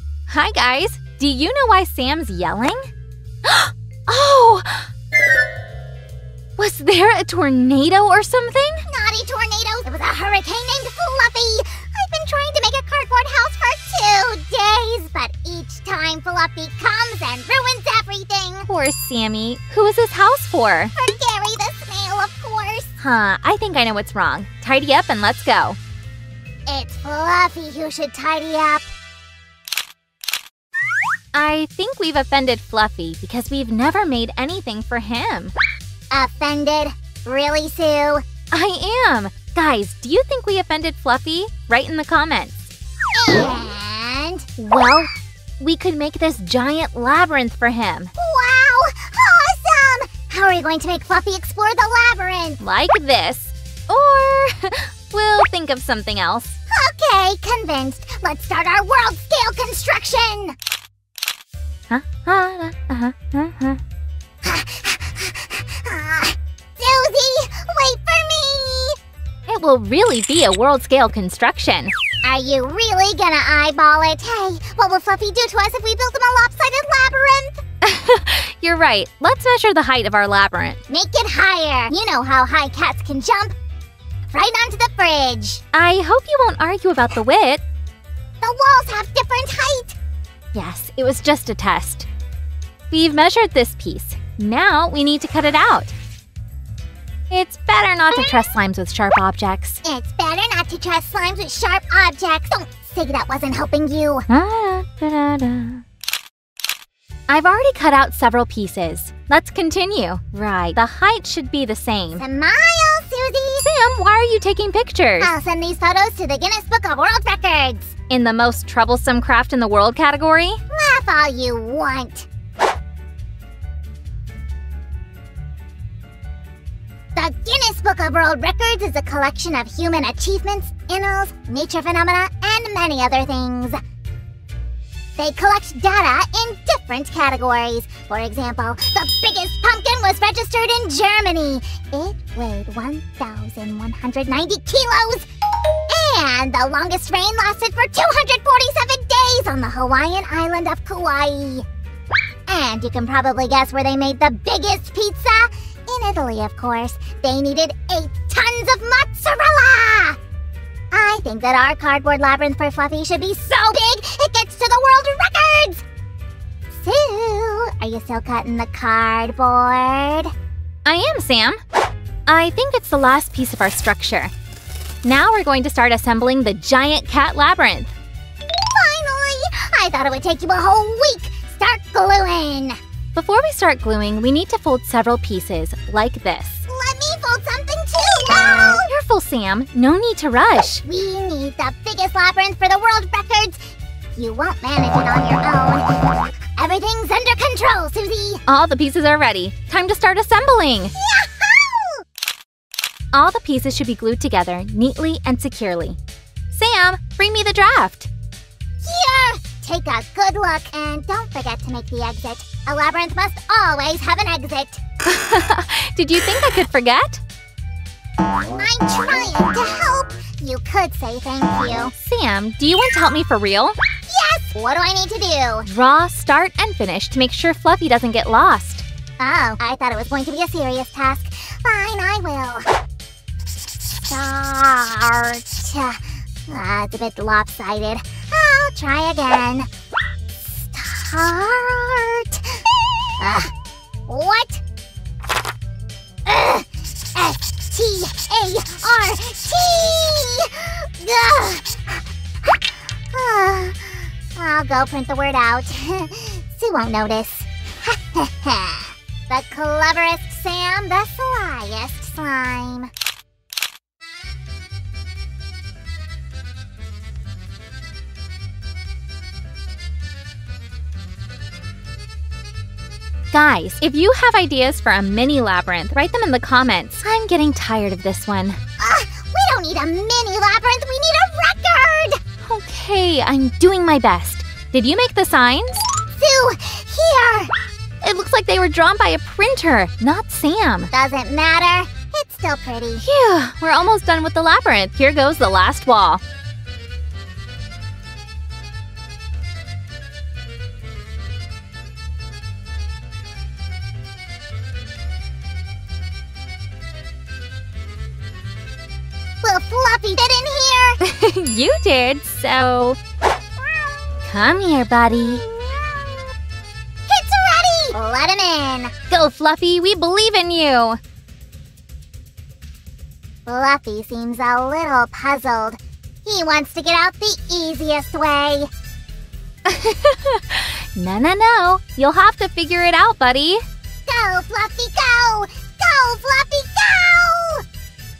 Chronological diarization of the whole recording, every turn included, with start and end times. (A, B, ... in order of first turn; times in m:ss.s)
0:00.3-0:02.9 A
0:03.4-0:04.9 A
0:06.6-0:08.8 A
0:08.8-0:18.7 B
0:18.7-0:20.9 A
0:21.0-0:23.0 B
0:23.0-0:25.8 A
0:26.7-0:28.9 B
0:31.3-0:35.5 A
0:36.1-0:38.2 B
0:38.5-0:42.7 A
0:43.2-0:44.5 B
0:44.6-0:48.1 A
0:48.2-0:52.6 B
0:52.6-0:56.6 A
0:56.7-1:00.6 B
1:01.9-1:03.8 A
1:04.4-1:09.0 B
1:09.5-1:11.9 A
1:12.2-1:17.6 B
1:17.8-1:20.8 A
1:20.9-1:23.6 B
1:24.3-1:25.6 B
1:25.7-1:27.6 A
1:28.4-1:30.0 B
1:30.6-1:32.1 A
1:32.9-1:35.9 A
1:37.3-1:39.8 A
1:39.8-1:44.3 B
1:44.3-1:45.8 A
1:47.3-1:52.2 A
1:52.1-1:53.7 B
1:53.6-1:55.3 A
1:55.2-1:58.0 B
1:58.1-2:00.6 A
2:00.7-2:02.3 B
2:07.1-2:13.8 B
2:15.2-2:25.2 B
2:25.9-2:31.6 B
2:32.5-2:40.2 B
2:40.9-2:45.8 B
2:46.7-2:50.3 B
2:50.8-2:51.6 A
2:52.3-2:54.3 A
2:55.0-2:57.9 A
2:58.6-3:02.8 B
3:03.1-3:06.6 A
3:06.7-3:08.9 B
3:08.9-3:10.8 A
3:10.8-3:18.4 B
3:18.5-3:20.9 A
3:21.0-3:22.0 B
3:23.1-3:26.0 A
3:26.5-3:28.1 A
3:28.8-3:34.8 B
3:35.0-3:37.2 A
3:38.6-3:41.9 B
3:42.0-3:43.8 A
3:44.1-3:45.7 B
3:45.7-3:48.8 A
3:49.2-3:52.7 B
3:54.1-3:59.7 B
4:00.5-4:02.6 B
4:03.2-4:03.5 B
4:04.1-4:04.6 B
4:06.2-4:22.9 B
4:33.3-4:38.6 A
4:38.8-4:42.2 B
4:42.4-4:45.8 A
4:46.1-4:47.5 B
4:48.0-4:50.9 A
4:50.9-4:53.1 B
4:53.0-4:56.2 A
5:09.4-5:11.0 B
5:11.0-5:13.0 A
5:14.2-5:15.4 A
5:15.4-5:16.0 B
5:17.1-5:18.9 B
5:19.1-5:21.0 A
5:23.5-5:28.7 B
5:29.6-5:33.6 A
5:34.1-5:37.6 B